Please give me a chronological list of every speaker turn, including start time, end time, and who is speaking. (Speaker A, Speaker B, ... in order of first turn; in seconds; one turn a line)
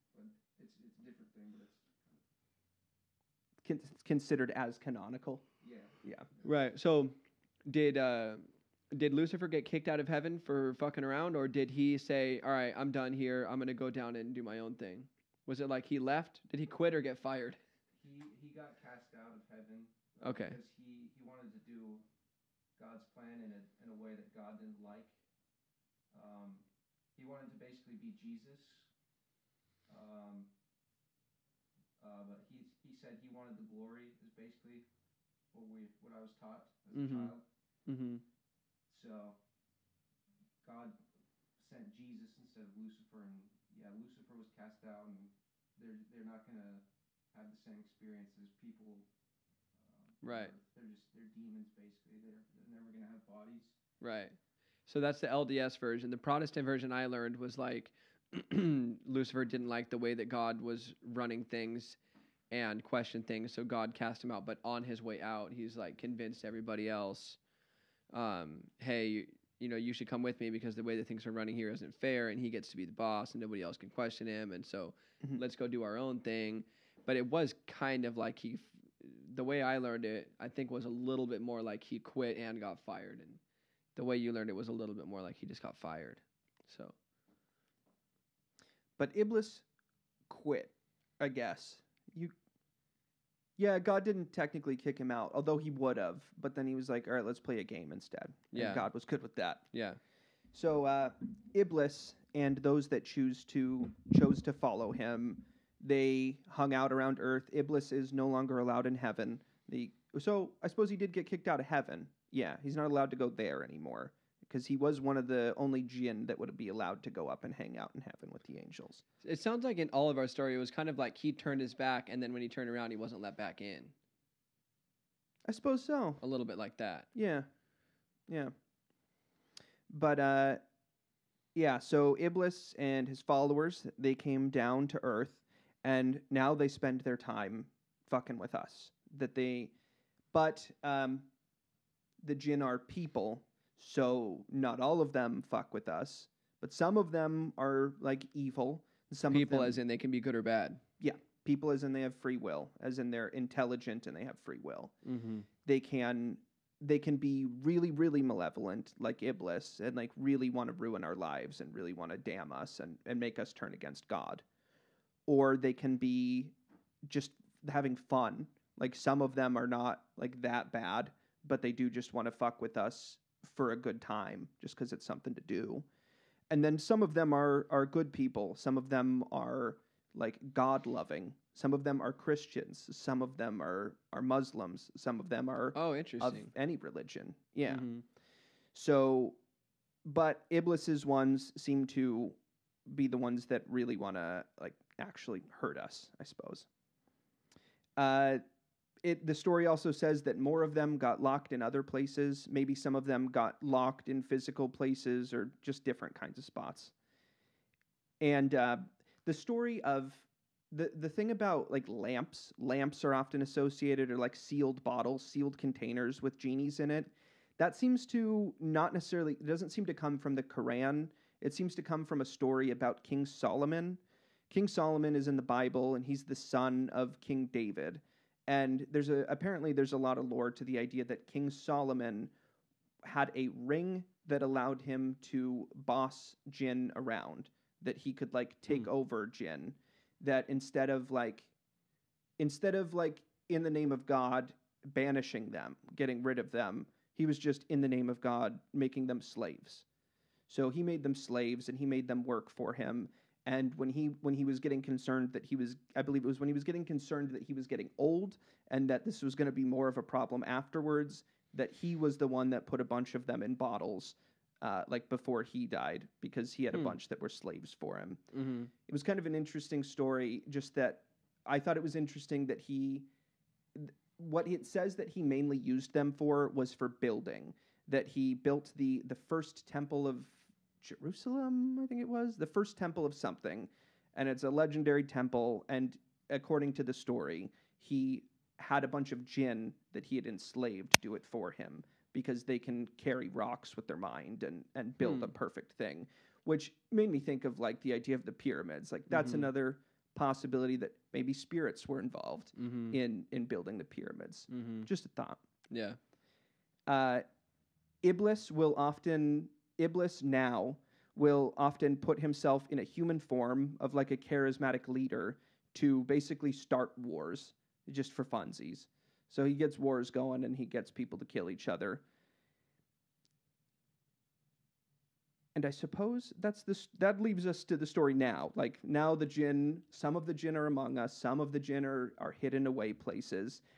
Speaker A: 0.1-2.2
Speaker B: 3.6-5.5
Speaker A: 5.6-6.5
Speaker C: 6.4-17.6
Speaker A: 18.0-22.0
Speaker C: 20.2-20.6
Speaker A: 22.8-25.1
Speaker A: 26.1-26.6
Speaker A: 27.1-28.9
Speaker A: 29.9-30.5
Speaker A: 32.0-34.9
Speaker A: 35.5-37.4
Speaker C: 36.9-37.3
Speaker C: 37.9-38.2
Speaker A: 38.9-39.4
Speaker A: 40.6-41.0
Speaker A: 41.6-49.1
Speaker A: 49.7-53.8
Speaker C: 50.2-50.5
Speaker C: 54.0-62.0
Speaker C: 62.5-67.4
Speaker C: 68.1-83.4
Speaker C: 84.0-86.9
Speaker B: 89.0-89.6
Speaker B: 90.3-92.3
Speaker B: 93.6-99.7
Speaker C: 98.5-98.9
Speaker C: 99.7-100.0
Speaker B: 100.5-119.0
Speaker C: 119.2-123.9
Speaker B: 125.5-126.2
Speaker C: 126.2-127.1
Speaker B: 127.1-127.5
Speaker B: 128.3-128.5
Speaker B: 129.9-130.6
Speaker B: 131.6-139.7
Speaker B: 140.3-141.3
Speaker B: 142.2-149.8
Speaker C: 149.3-150.8
Speaker B: 151.0-154.9
Speaker C: 155.1-155.5
Speaker B: 155.7-164.4
Speaker B: 165.3-166.5
Speaker B: 167.1-175.9
Speaker B: 176.5-187.9
Speaker C: 185.7-186.5
Speaker C: 187.7-188.0
Speaker B: 188.7-189.4
Speaker B: 190.1-192.4
Speaker B: 192.9-196.7
Speaker B: 198.0-198.4
Speaker B: 199.0-206.9
Speaker B: 208.2-232.3
Speaker B: 233.0-241.5
Speaker B: 242.4-249.8
Speaker B: 250.5-268.2
Speaker C: 268.3-268.7
Speaker B: 268.9-273.1
Speaker B: 273.8-305.4
Speaker C: 295.0-295.3
Speaker C: 299.1-299.5
Speaker C: 302.6-303.0
Speaker C: 304.5-304.9
Speaker C: 305.7-306.0
Speaker B: 306.9-307.2
Speaker B: 308.0-322.0
Speaker B: 325.6-333.6